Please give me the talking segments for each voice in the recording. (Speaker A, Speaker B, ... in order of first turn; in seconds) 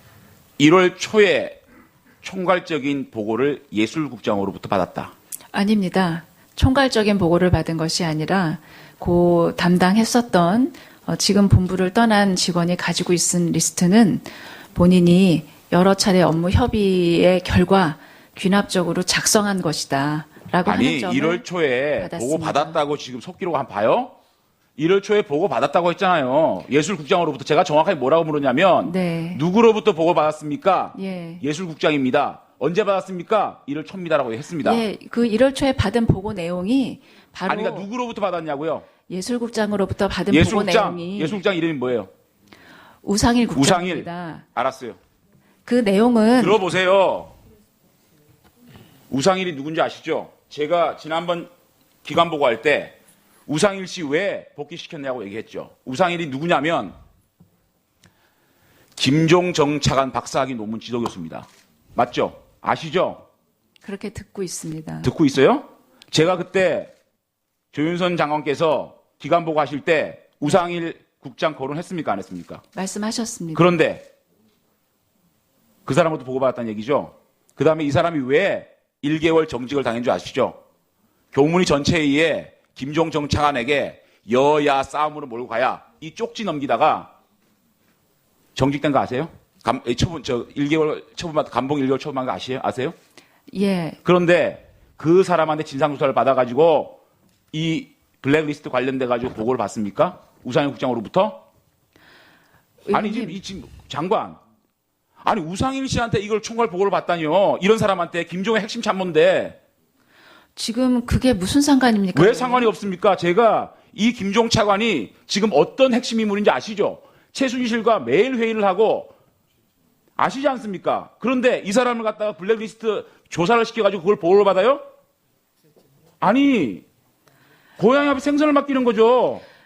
Speaker A: 0.6-1.6, 2.2-5.1, 20.6-24.1, 24.8-34.8, 37.5-38.9, 40.3-42.1, 43.5-45.0, 46.4-47.3, 49.1-51.5, 52.0-53.0, 53.5-56.9, 59.0-63.2, 65.0-66.9, 67.7-72.6, 73.5-74.1, 75.8-80.6, 81.3-87.1, 88.5-92.9, 94.0-97.0, 97.5-101.4, 102.9-104.4, 105.2-109.6, 112.1-119.1, 120.2-124.8, 126.2-126.8, 127.8-129.4
Speaker B: 5.5-22.8, 28.8-29.4, 30.9-31.4, 34.6-37.9, 39.1-41.4, 43.0-44.4, 45.6-46.6, 63.8-65.1, 72.7-73.7, 93.5-94.0, 102.9-103.4, 110.5-112.7